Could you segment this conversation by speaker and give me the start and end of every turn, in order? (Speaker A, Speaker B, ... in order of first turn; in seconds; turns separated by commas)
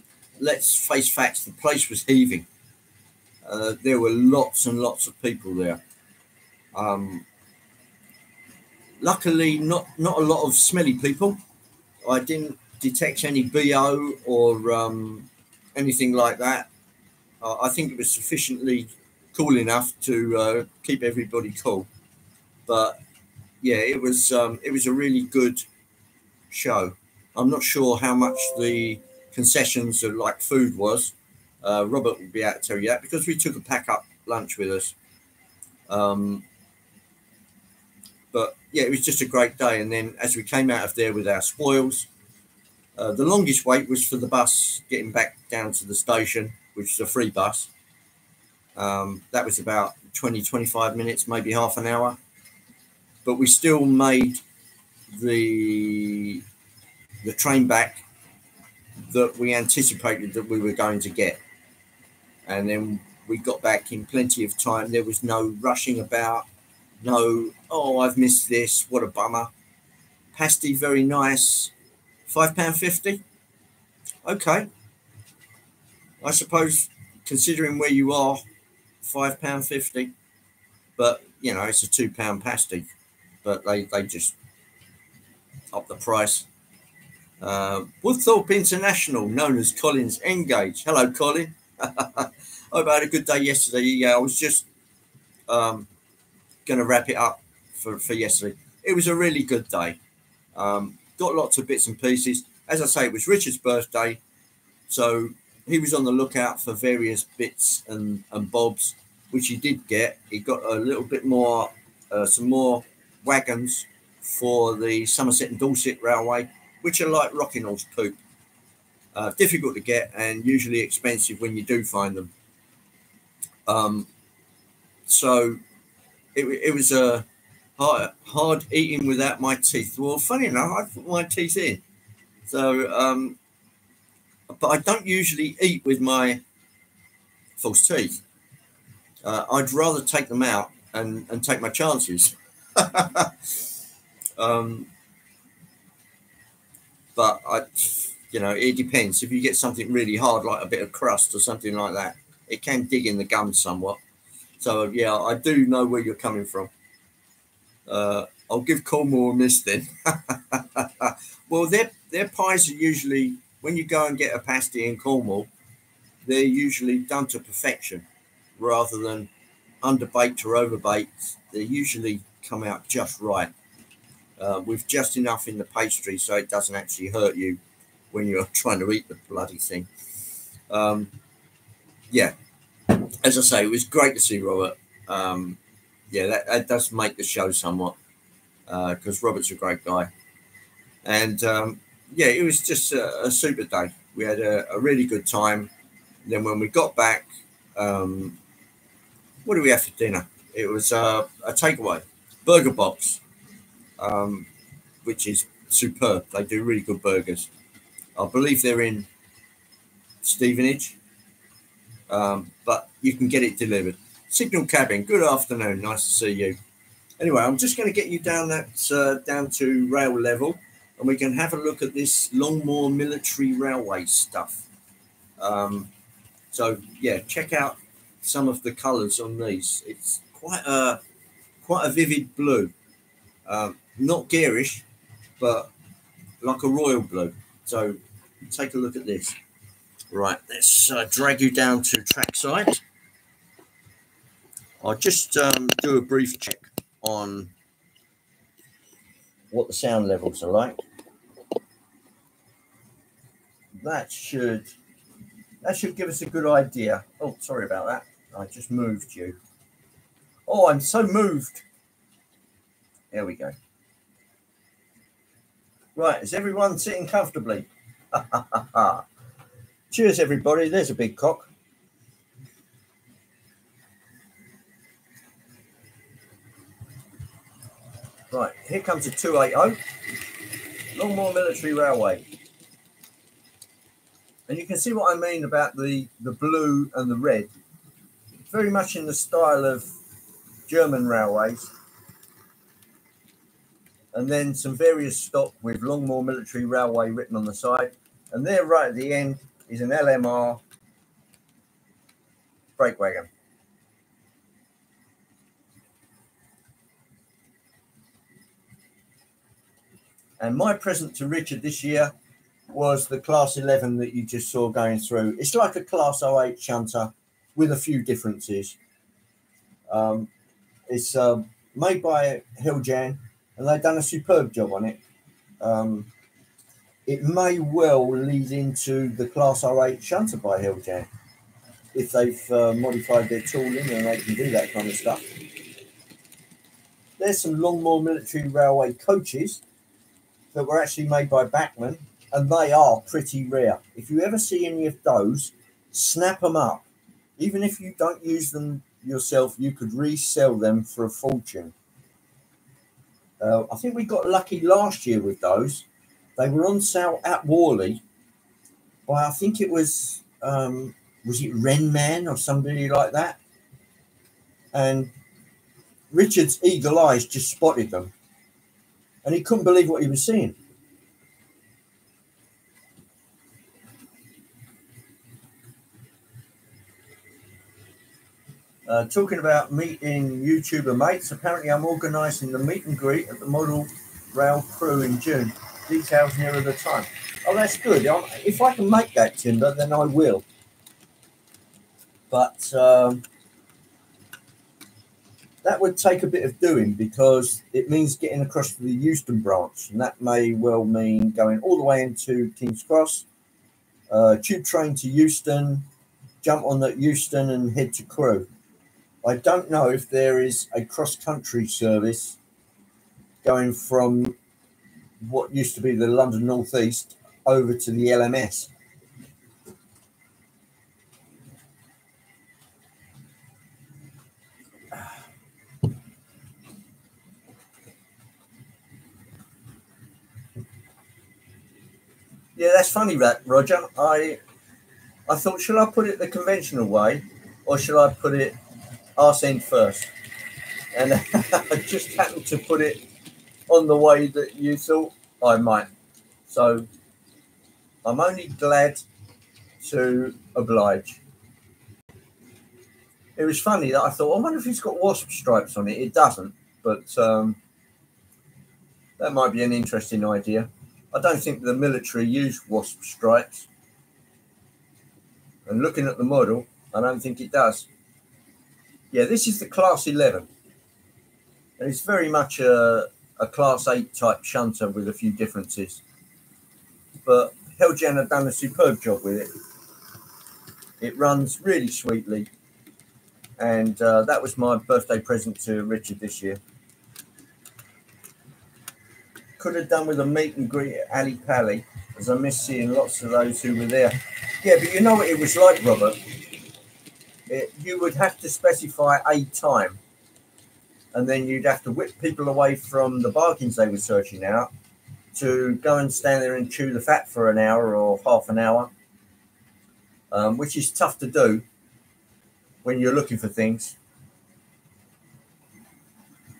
Speaker A: 0.4-2.5, Speaker A: 3.4-5.8, Speaker A: 6.7-7.2, Speaker A: 9.0-11.4, Speaker A: 12.0-16.7, Speaker A: 17.4-21.9, Speaker A: 22.7-23.0, Speaker A: 23.6-25.6, Speaker A: 26.5-34.9, Speaker A: 35.9-36.4, Speaker A: 38.3-42.1, Speaker A: 43.0-47.7, Speaker A: 48.8-52.2, Speaker A: 53.2-54.4, Speaker A: 55.1-56.4, Speaker A: 57.2-58.0, Speaker A: 59.1-61.4, Speaker A: 62.5-66.5, Speaker A: 67.0-69.5, Speaker A: 70.3-71.7, Speaker A: 72.3-73.2, Speaker A: 74.2-74.7, Speaker A: 76.2-78.4, Speaker A: 79.0-80.1, Speaker A: 81.0-82.9, Speaker A: 83.4-84.3, Speaker A: 85.7-86.5, Speaker A: 87.4-94.7, Speaker A: 95.5-95.9, Speaker A: 96.7-100.0, Speaker A: 100.5-104.2, Speaker A: 104.9-118.2, Speaker A: 119.1-122.3, Speaker A: 123.7-124.1, Speaker A: 125.0-125.6, Speaker A: 126.3-127.2, Speaker A: 127.8-131.8, Speaker A: 132.5-133.4, Speaker A: 134.5-136.4, Speaker A: 137.6-138.2, Speaker A: 139.2-143.6, Speaker A: 144.4-144.9, Speaker A: 147.2-154.0, Speaker A: 154.6-156.7, Speaker A: 157.9-165.5, Speaker A: 166.2-168.1, Speaker A: 168.6-169.3, Speaker A: 169.8-173.5, Speaker A: 174.4-177.6, Speaker A: 178.1-179.9, Speaker A: 180.7-181.1, Speaker A: 182.1-182.3, Speaker A: 182.9-185.6, Speaker A: 186.1-187.9, Speaker A: 188.7-190.1, Speaker A: 191.0-195.7, Speaker A: 196.2-198.4, Speaker A: 199.4-203.2, Speaker A: 204.0-204.5, Speaker A: 205.0-207.5, Speaker A: 208.2-209.1, Speaker A: 210.2-211.0, Speaker A: 212.1-216.6, Speaker A: 217.2-224.7, Speaker A: 225.4-225.9, Speaker A: 226.5-231.0, Speaker A: 231.6-232.7, Speaker A: 233.5-234.8, Speaker A: 235.4-235.7, Speaker A: 236.4-239.4, Speaker A: 240.1-242.8, Speaker A: 244.8-247.5, Speaker A: 249.5-250.8, Speaker A: 253.8-254.7, Speaker A: 255.6-259.4, Speaker A: 260.5-261.6, Speaker A: 263.1-263.5, Speaker A: 265.9-269.0, Speaker A: 269.9-271.5, Speaker A: 278.3-279.8, Speaker A: 280.9-282.3, Speaker A: 284.5-287.5, Speaker A: 288.5-289.9, Speaker A: 290.7-291.7, Speaker A: 294.1-300.6, Speaker A: 302.8-303.3, Speaker A: 310.4-312.1, Speaker A: 312.7-318.8, Speaker A: 319.9-320.3, Speaker A: 320.9-325.0, Speaker A: 325.6-326.1, Speaker A: 327.1-331.1, Speaker A: 331.9-335.3, Speaker A: 337.2-339.6, Speaker A: 340.5-346.9, Speaker A: 347.4-351.7, Speaker A: 353.4-355.9, Speaker A: 356.4-358.0, Speaker A: 359.1-363.4, Speaker A: 364.7-365.1, Speaker A: 366.1-368.1, Speaker A: 369.2-370.6, Speaker A: 378.9-390.4, Speaker A: 392.3-393.2, Speaker A: 395.6-403.2, Speaker A: 404.1-405.9, Speaker A: 406.4-408.5, Speaker A: 409.2-412.4, Speaker A: 413.4-414.3, Speaker A: 415.2-418.7, Speaker A: 432.6-434.4, Speaker A: 435.3-438.6, Speaker A: 439.2-440.1, Speaker A: 440.9-443.0, Speaker A: 443.7-445.9, Speaker A: 446.5-446.9, Speaker A: 448.0-449.0, Speaker A: 449.8-451.2, Speaker A: 453.4-457.6, Speaker A: 459.2-463.7, Speaker A: 465.7-467.9, Speaker A: 469.1-470.5, Speaker A: 471.8-476.0, Speaker A: 477.2-479.5, Speaker A: 481.0-482.5, Speaker A: 483.6-486.6, Speaker A: 489.6-496.2, Speaker A: 497.5-500.0, Speaker A: 501.1-504.7, Speaker A: 505.3-508.9, Speaker A: 510.3-511.6, Speaker A: 512.8-514.0